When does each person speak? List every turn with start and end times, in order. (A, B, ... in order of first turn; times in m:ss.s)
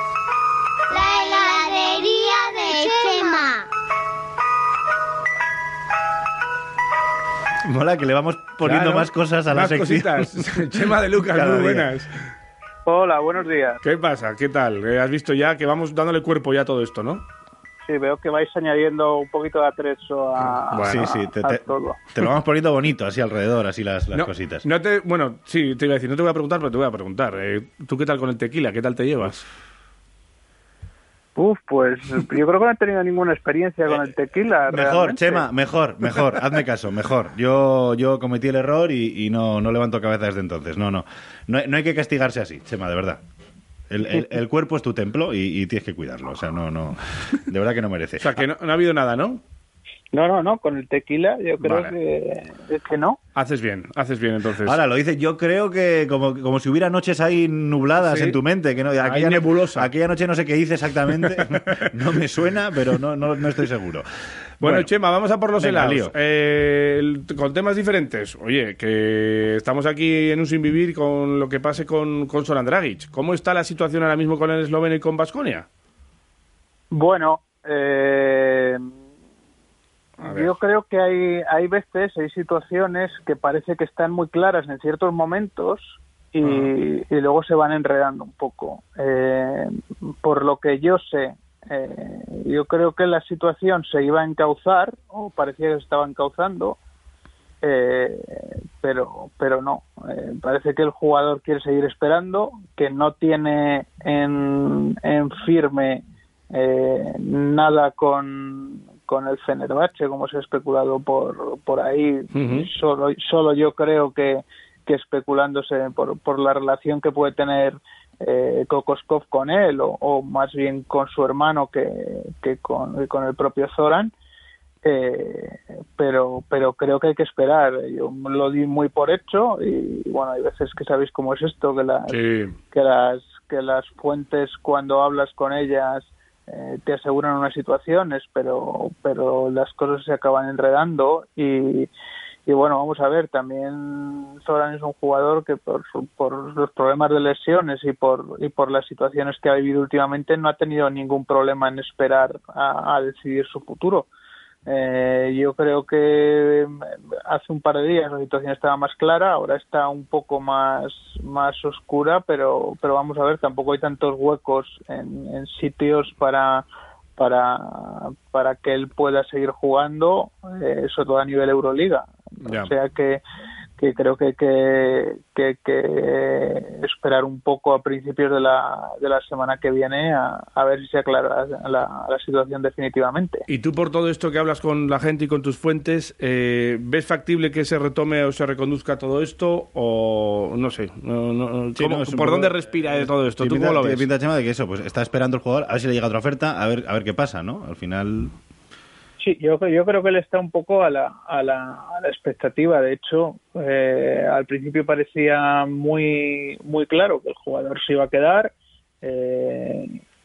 0:00.9-0:03.7 A
0:07.6-0:11.9 B
0:08.6-0:12.1 C
0:12.9-0:13.8 D
0:13.8-0:17.2 C
0:17.8-0:22.0 D
0:20.4-0:21.0 C
0:20.8-0:24.7 B
0:24.1-0:29.4 C
0:31.4-0:35.5 D
0:34.7-0:43.2 B
0:43.9-0:48.4 B
0:48.2-0:49.4 C
0:50.1-0:53.2 D
0:51.6-0:52.0 C
0:53.4-0:54.8 C
0:54.6-1:04.1 B
0:58.0-0:58.4 C
0:59.0-0:59.9 C
1:01.2-1:01.8 C
1:04.6-1:04.9 B
1:04.6-1:15.7 C
1:05.6-1:06.1 B
1:16.9-1:18.9 D
1:20.2-1:36.8 D
1:20.2-1:20.5 C
1:26.4-1:26.7 C
1:37.6-2:04.1 D
1:52.3-1:52.7 C
2:04.8-2:12.2 D
2:12.1-2:12.6 C
2:12.7-2:21.9 D
2:22.5-2:34.1 D
2:34.7-2:46.6 D
2:47.2-2:53.2 D
2:52.4-2:52.7 C
2:53.8-3:03.4 D
3:03.5-3:14.1 C
3:11.8-3:18.3 B
3:19.2-3:30.0 D